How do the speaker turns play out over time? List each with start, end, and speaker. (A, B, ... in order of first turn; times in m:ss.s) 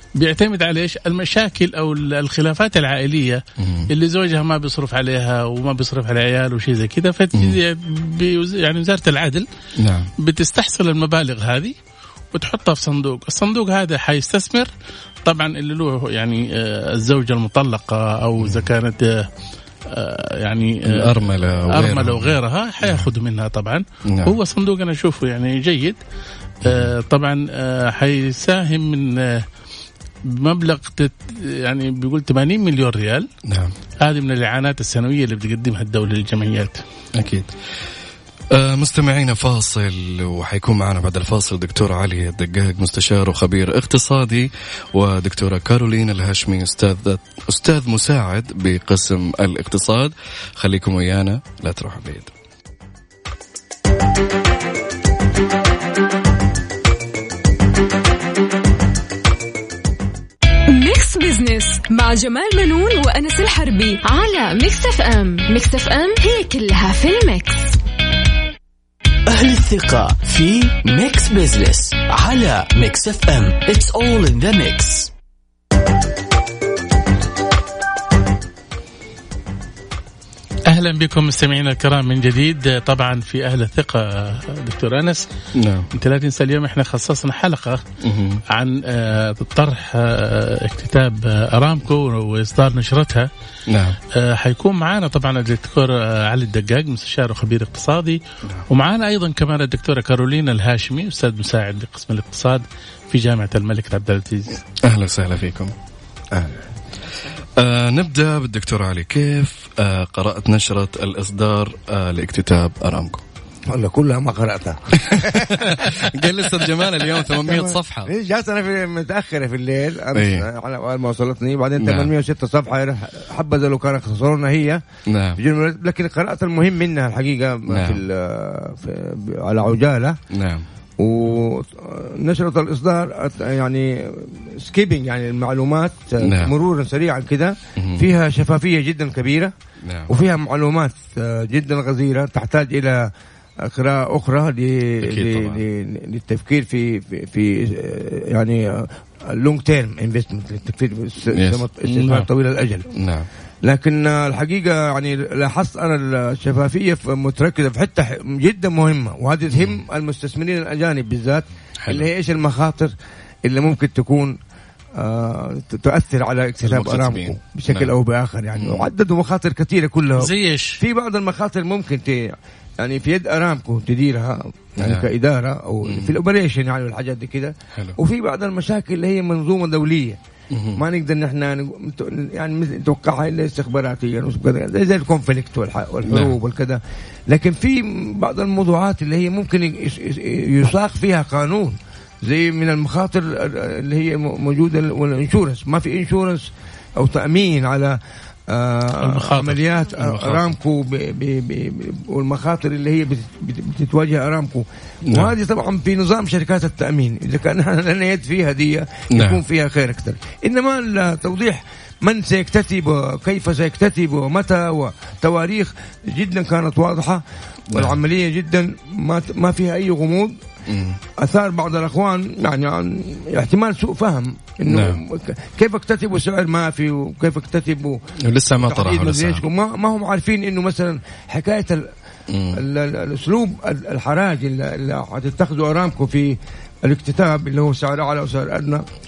0:00.2-0:09.5 A
0:03.6-0:03.9 B
0:09.8-0:10.1 B
0:10.2-0:11.8 A
0:12.3-0:14.7 A
0:15.2-0:19.3 A
0:19.9-0:26.0 A
0:20.9-0:23.1 B
0:24.1-0:24.4 B
0:26.6-0:29.5 A
0:26.6-0:26.9 B
0:30.2-0:33.3 A
0:33.4-0:33.7 B
0:34.0-0:36.8 A
0:37.2-0:37.5 B
0:38.5-0:52.3 B
1:00.7-1:07.8 C
1:09.3-1:15.1 D
1:20.7-1:25.3 A
1:25.6-1:25.9 B
1:25.9-1:27.8 A
1:28.0-1:28.4 B
1:28.5-1:33.3 A
1:33.7-1:34.0 B
1:34.1-1:44.6 A
1:44.8-1:45.7 B
1:46.3-1:46.6 E
1:47.6-1:53.2 B
1:53.7-2:04.8 E
1:55.0-1:58.1 B
2:00.1-2:00.5 B
2:01.8-2:02.1 B
2:05.1-2:05.4 B
2:05.4-2:10.2 E
2:07.7-2:08.0 B
2:10.3-2:10.6 B
2:11.0-2:19.5 E
2:16.2-2:16.5 B
2:17.8-2:18.1 B
2:19.8-2:20.2 B
2:20.1-2:23.1 E
2:23.6-2:32.9 E
2:25.0-2:25.6 B
2:31.3-2:31.6 B
2:31.9-2:32.3 A
2:32.9-2:33.3 B
2:33.6-2:42.9 E
2:41.8-2:42.1 B
2:43.4-2:44.4 E
2:45.0-3:00.2 E
2:46.6-2:47.9 B
2:48.6-2:48.9 B
2:50.2-2:50.8 A
2:54.8-2:55.1 B
2:55.9-2:56.1 B
3:00.5-3:00.8 B
3:00.8-3:40.4 E
3:06.1-3:06.4 B
3:19.0-3:20.4 A
3:25.0-3:25.3 B
3:29.1-3:29.4 B
3:37.7-3:38.0 B
3:40.7-3:41.0 B
3:41.2-3:48.0 E
3:44.7-3:45.0 B
3:48.2-3:49.4 B
3:48.6-3:51.9 E
3:52.3-3:52.6 B
3:52.5-3:58.8 E